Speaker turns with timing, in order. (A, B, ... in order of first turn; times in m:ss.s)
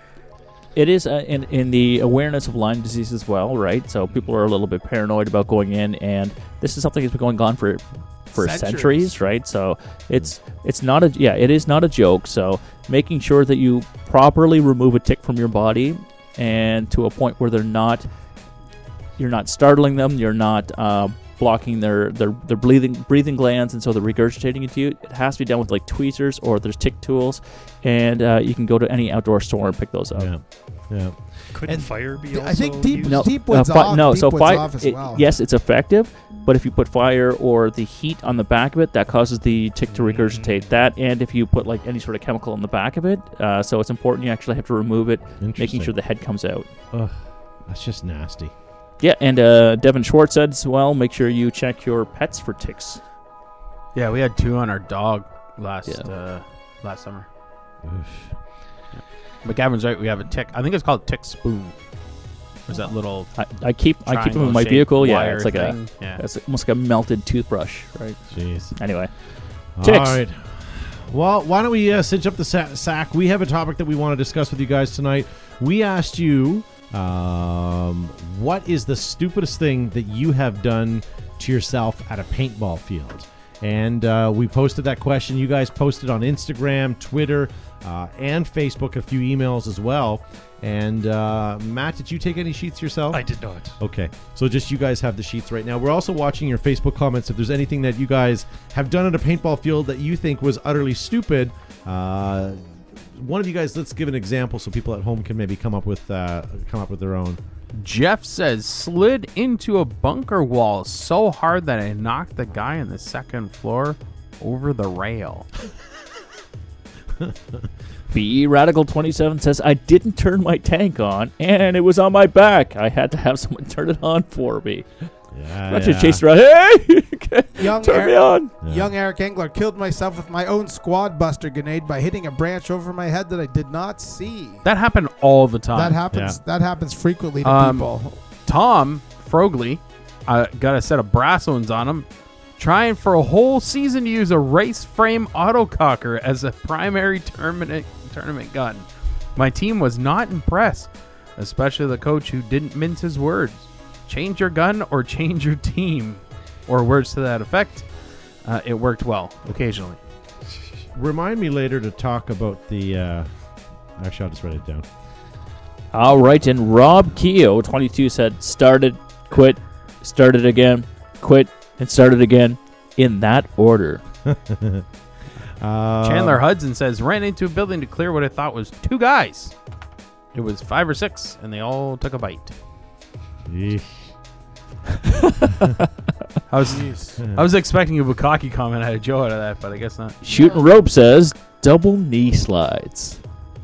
0:00.8-0:18.1 A
0:08.4-0:09.1 B
0:19.2-0:30.3 A
0:30.2-0:31.8 C
0:31.5-0:33.3 D
0:31.7-0:35.3 B
0:33.0-0:46.7 A
0:39.9-0:40.7 D
0:45.4-0:45.9 C
0:46.9-0:48.5 C
0:49.0-0:53.0 A
0:53.9-0:57.3 E
0:57.8-0:58.3 C
0:59.0-1:01.8 E
1:02.7-1:03.3 E
1:03.4-1:08.2 A
1:04.0-1:06.2 E
1:08.3-1:08.8 C
1:08.8-1:09.1 A
1:09.8-1:33.3 C
1:09.8-1:10.2 A
1:33.1-1:33.8 D
1:33.8-1:42.6 C
1:43.2-1:47.4 C
1:47.7-1:55.5 E
1:58.1-2:04.9 A
2:05.3-2:06.2 C
2:05.7-2:08.5 A
2:07.6-2:14.6 B
2:08.6-2:08.9 C
2:14.6-2:16.0 E
2:15.7-2:18.2 B
2:16.1-2:16.4 C
2:17.4-2:17.9 E
2:18.4-2:22.1 E
2:22.6-2:37.9 E
2:38.4-2:40.0 E
2:41.0-2:43.3 C
2:44.0-2:44.9 C
2:45.9-2:54.0 A
2:54.3-2:54.8 C
2:55.6-2:56.4 C
2:56.0-2:59.5 E
3:00.3-3:02.5 E
3:03.5-3:04.1 C
3:05.1-3:05.7 A
3:06.5-3:10.2 E
3:06.7-3:07.2 B
3:07.2-3:07.5 C
3:10.2-3:13.2 A
3:10.3-3:10.7 B